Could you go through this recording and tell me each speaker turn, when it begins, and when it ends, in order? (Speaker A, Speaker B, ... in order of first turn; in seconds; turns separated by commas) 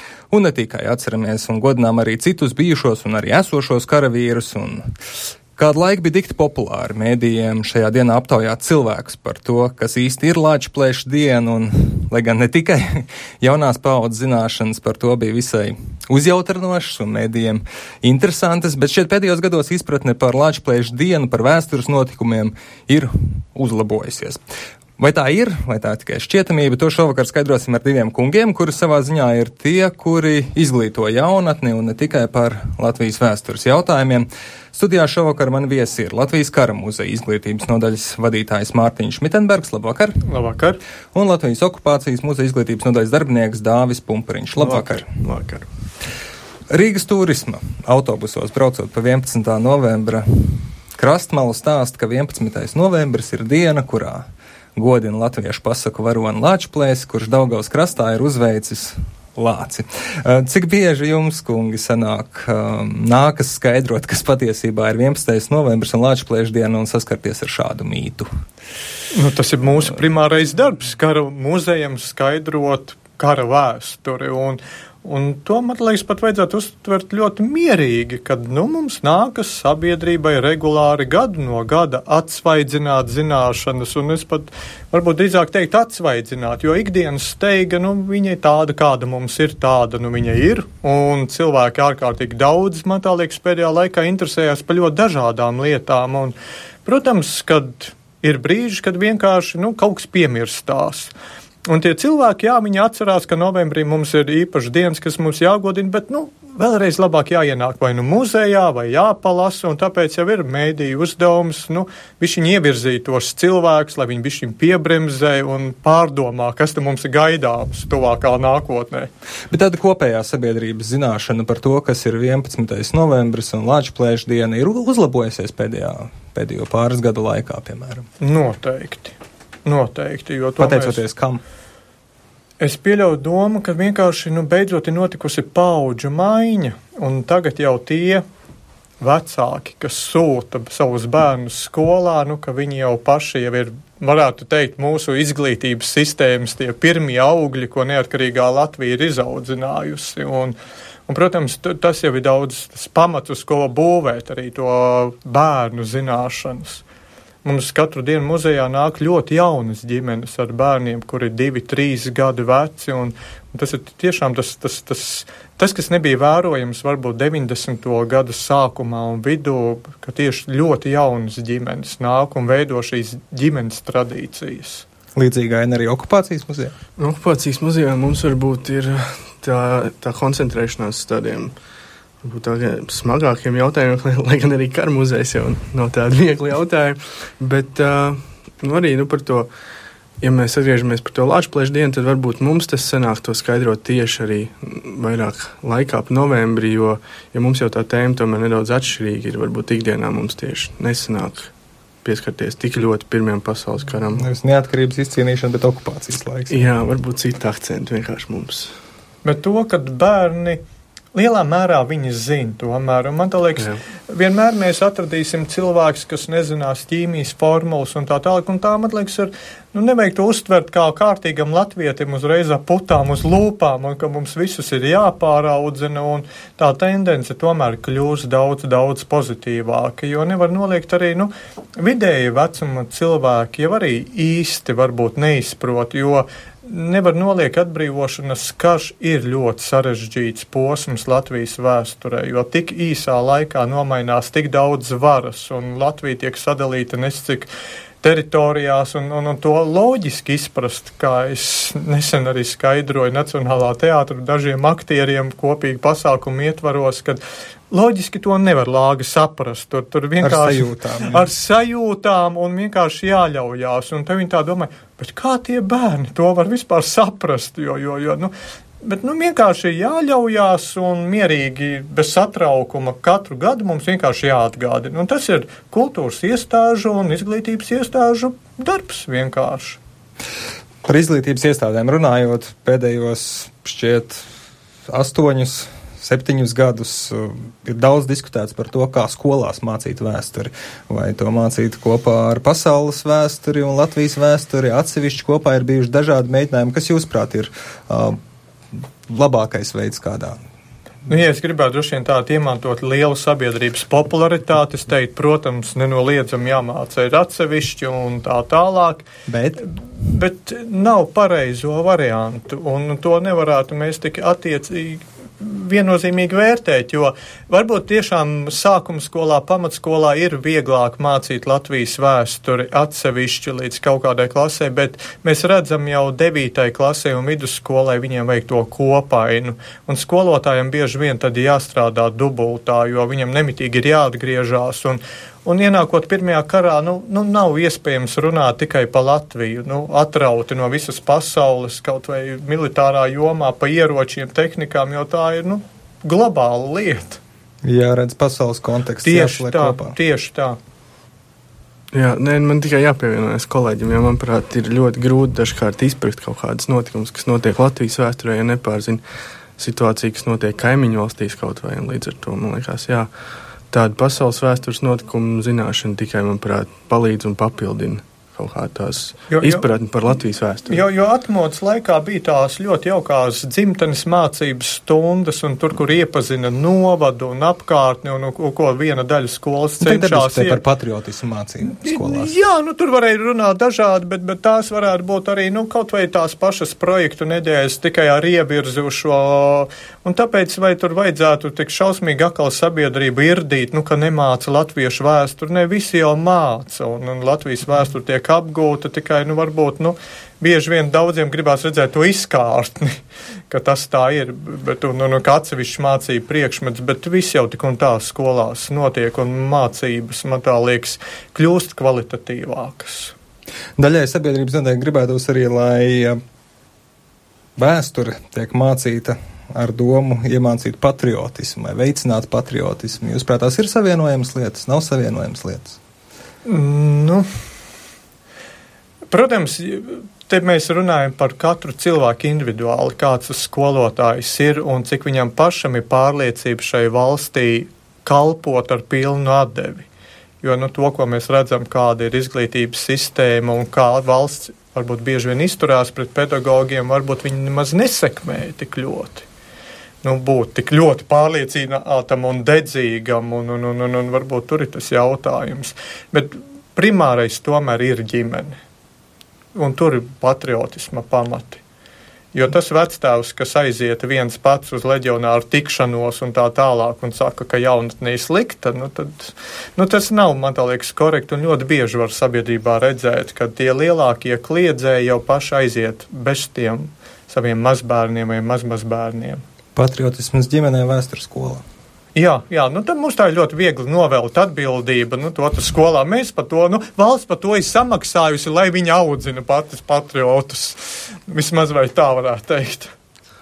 Speaker A: 0.3-4.8, Speaker A: 5.6-24.4, Speaker A: 25.0-40.2, Speaker B: 40.2-40.8, Speaker A: 41.1-45.1, Speaker C: 44.6-45.7, Speaker A: 46.7-68.3, Speaker B: 69.1-101.1, Speaker B: 101.7-119.1, Speaker A: 119.5-128.1, Speaker B: 128.2-131.0, Speaker A: 130.6-131.4, Speaker B: 132.6-138.2, Speaker B: 139.0-150.6, Speaker B: 151.1-156.8, Speaker B: 157.4-174.8, Speaker A: 175.2-176.8, Speaker C: 177.0-181.5, Speaker C: 182.2-189.5, Speaker C: 190.2-201.5, Speaker C: 202.1-204.3, Speaker A: 204.2-206.6, Speaker C: 206.5-208.7, Speaker B: 209.2-210.6, Speaker B: 211.1-247.5, Speaker B: 248.0-279.8, Speaker A: 260.2-261.3, Speaker A: 280.8-284.2, Speaker A: 284.9-298.2, Speaker A: 299.1-300.4, Speaker B: 301.1-309.1, Speaker A: 309.3-309.6, Speaker B: 309.6-347.2, Speaker A: 347.6-350.0, Speaker B: 349.0-350.6, Speaker C: 351.9-359.0, Speaker C: 359.6-363.1, Speaker C: 363.7-370.8, Speaker B: 369.3-369.7, Speaker B: 370.7-380.6, Speaker A: 379.8-382.3, Speaker B: 381.7-413.1, Speaker A: 413.8-416.2, Speaker A: 417.6-425.8, Speaker B: 426.4-427.3, Speaker B: 429.1-439.9, Speaker B: 440.4-449.3, Speaker B: 450.0-458.6, Speaker B: 459.6-461.6, Speaker B: 462.3-479.4, Speaker A: 479.8-481.6, Speaker B: 482.1-492.9